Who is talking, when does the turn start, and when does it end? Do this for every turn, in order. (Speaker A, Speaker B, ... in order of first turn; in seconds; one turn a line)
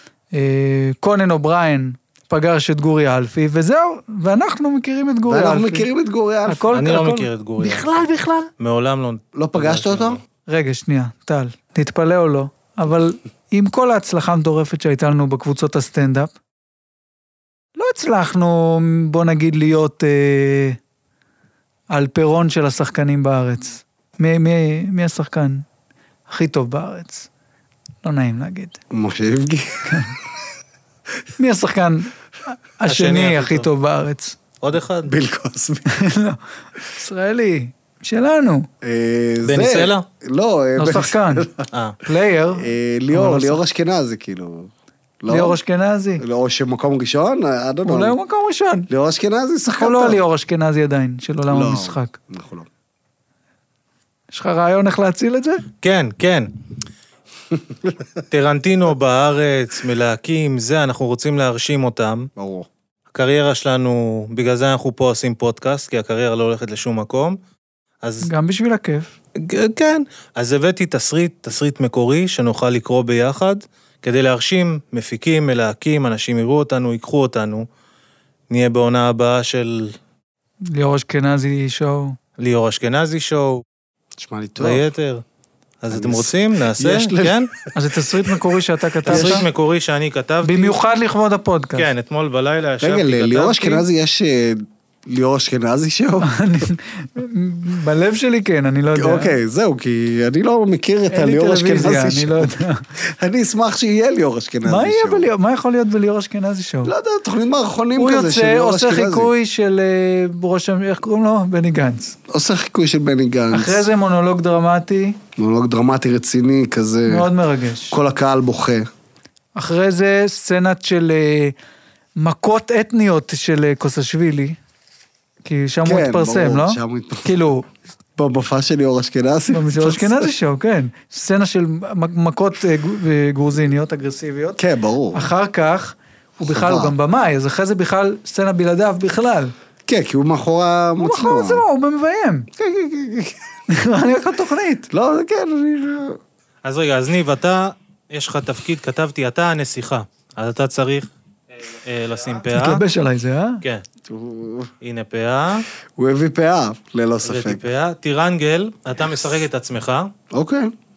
Speaker A: 0.3-5.9
Speaker B: 5.3-6.7
Speaker A: 6.5-8.5
Speaker C: 6.7-8.0
Speaker C: 8.6-10.2
Speaker B: 9.3-10.2
Speaker A: 10.5-16.4
Speaker A: 17.8-20.8
Speaker A: 21.9-25.6
Speaker A: 26.3-27.3
Speaker A: 28.0-28.8
Speaker B: 28.9-30.0
Speaker A: 29.9-30.1
Speaker A: 31.4-34.4
Speaker C: 32.9-33.7
Speaker C: 34.6-35.1
Speaker B: 35.1-35.9
Speaker A: 35.9-38.7
Speaker B: 38.8-41.7
Speaker C: 39.5-40.0
Speaker A: 40.8-41.5
Speaker C: 41.7-42.0
Speaker A: 42.0-43.6
Speaker B: 42.5-45.6
Speaker A: 45.3-46.2
Speaker B: 46.2-48.2
Speaker A: 47.8-48.9
Speaker B: 48.9-50.2
Speaker A: 49.7-52.1
Speaker B: 51.5-52.7
Speaker A: 54.3-55.6
Speaker C: 55.8-56.5
Speaker C: 58.3-62.3
Speaker B: 62.4-62.7
Speaker C: 63.1-67.4
Speaker C: 68.0-68.3
Speaker A: 68.2-69.1
Speaker C: 69.4-77.7
Speaker C: 78.5-80.0
Speaker A: 80.7-82.2
Speaker C: 82.4-83.6
Speaker B: 84.2-84.9
Speaker C: 84.6-85.2
Speaker C: 85.8-87.5
Speaker B: 85.9-87.5
Speaker A: 87.7-89.5
Speaker B: 89.1-89.5
Speaker C: 89.1-90.8
Speaker A: 90.4-91.9
Speaker C: 91.8-93.8
Speaker B: 92.8-96.3
Speaker A: 96.2-99.4
Speaker B: 99.0-105.3
Speaker A: 101.1-102.8
Speaker A: 104.7-107.0
Speaker B: 106.8-109.3
Speaker A: 108.0-112.2
Speaker B: 112.3-113.8
Speaker A: 113.5-115.2
Speaker B: 115.4-117.3
Speaker A: 117.1-118.0
Speaker B: 117.9-118.9
Speaker A: 119.6-121.5
Speaker A: 122.2-124.6
Speaker A: 125.5-127.7
Speaker B: 125.8-127.3
Speaker B: 128.2-130.3
Speaker A: 129.5-134.6
Speaker B: 134.6-135.2
Speaker A: 135.1-139.5
Speaker B: 136.4-136.9
Speaker B: 139.9-141.6
Speaker A: 141.0-142.5
Speaker B: 142.6-143.4
Speaker A: 143.7-144.9
Speaker B: 144.9-146.2
Speaker C: 146.6-151.1
Speaker C: 151.7-152.8
Speaker A: 152.5-153.6
Speaker B: 154.1-154.7
Speaker C: 154.8-155.7
Speaker B: 156.0-157.6
Speaker C: 157.2-160.1
Speaker B: 160.3-160.7